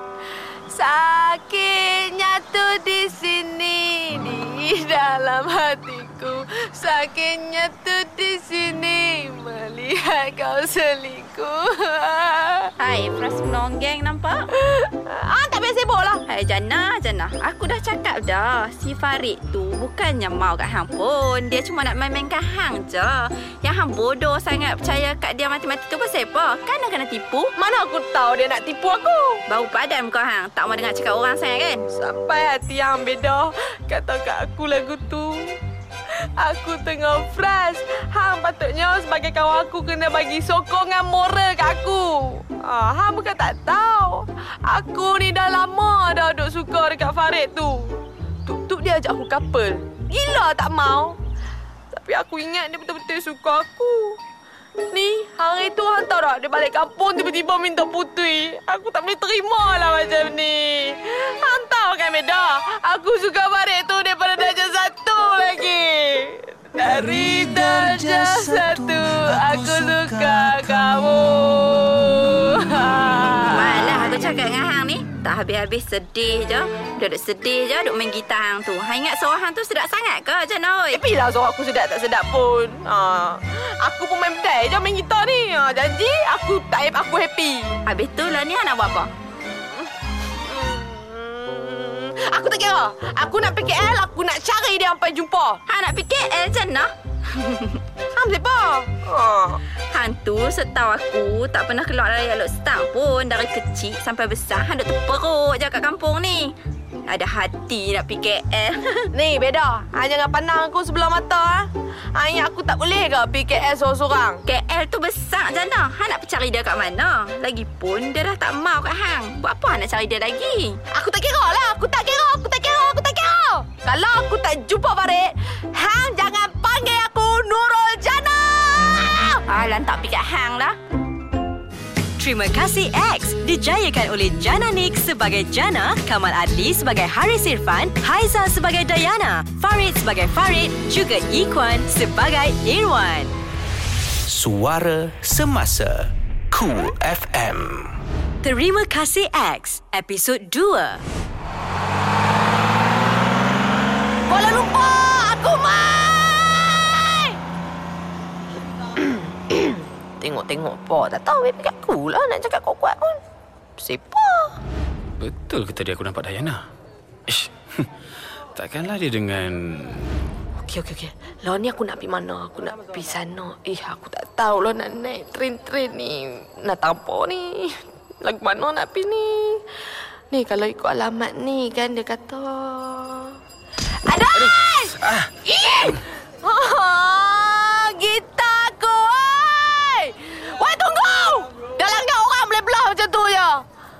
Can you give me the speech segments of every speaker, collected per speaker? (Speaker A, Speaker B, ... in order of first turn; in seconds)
Speaker A: 0.7-12.7, 14.7-16.2, 27.6-29.4, 31.9-35.5, 36.4-51.2, 52.0-54.2, 54.9-74.1, 80.9-87.8, 90.4-95.6, 98.2-99.6, 109.1-114.4, 120.9-129.4, 154.3-157.4, 158.9-163.2, 163.8-164.6, 170.6-179.7, 180.3-183.4, 184.0-193.6
Speaker B: 12.8-14.5, 16.3-27.5, 29.5-31.8, 73.5-81.0, 87.8-89.1, 95.7-97.8, 99.9-106.5, 107.1-109.1, 114.5-120.8, 129.5-130.8
Speaker C: 66.8-70.9, 144.3-147.9
Speaker D: 132.2-143.3, 148.4-151.0
Speaker E: 165.2-166.6, 167.3-167.9, 168.5-170.2, 184.3-185.3